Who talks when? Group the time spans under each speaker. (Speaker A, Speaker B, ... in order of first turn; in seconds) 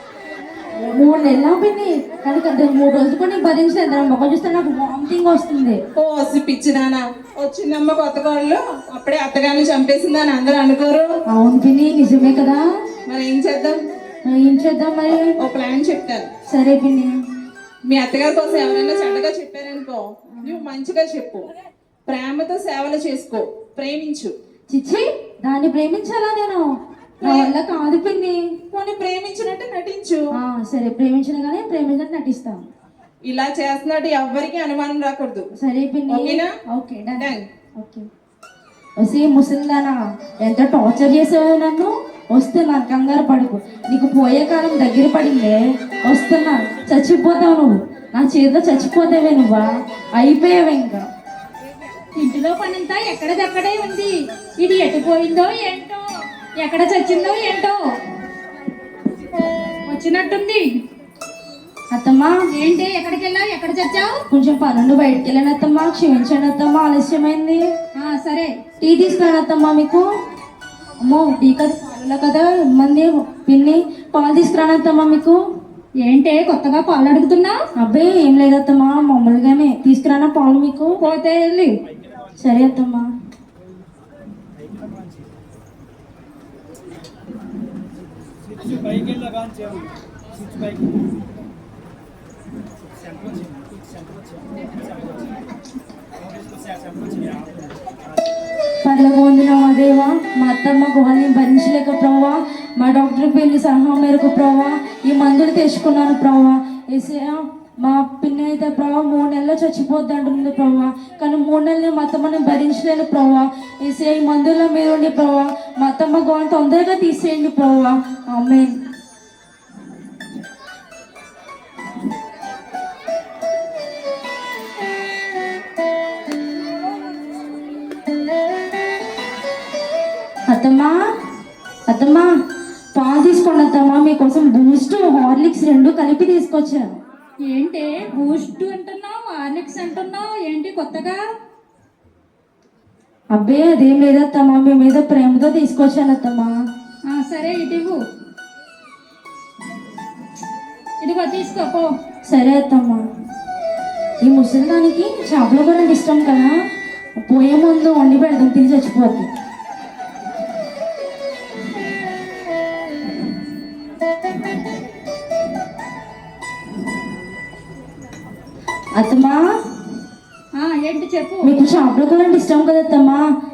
Speaker A: 0.8-5.8, 11.3-12.6, 14.3-15.3, 16.5-17.1, 24.7-26.7, 27.2-28.4, 30.4-32.7, 35.6-38.1, 39.0-51.1, 61.9-62.3, 64.3-67.7, 68.8-70.1, 71.0-75.4, 77.8-81.0, 82.4-83.1, 98.8-118.8, 130.5-130.9, 131.9-132.3, 132.9-136.9, 143.3-146.5, 152.3-153.0, 154.2-156.6, 157.2-159.3, 168.9-169.4, 171.4-173.2
Speaker B: 6.0-11.1, 13.1-13.8, 15.4-16.3, 17.9-21.5, 22.1-24.3, 27.2-27.5, 28.7-30.2, 33.2-35.5, 36.1-36.5, 37.2-37.4
Speaker C: 52.1-56.0, 56.6-57.8, 59.9-60.7, 62.5-64.2, 68.0-68.5, 76.0-77.6, 81.0-81.7, 137.5-141.2, 147.1-148.0, 151.0-151.9, 170.6-171.5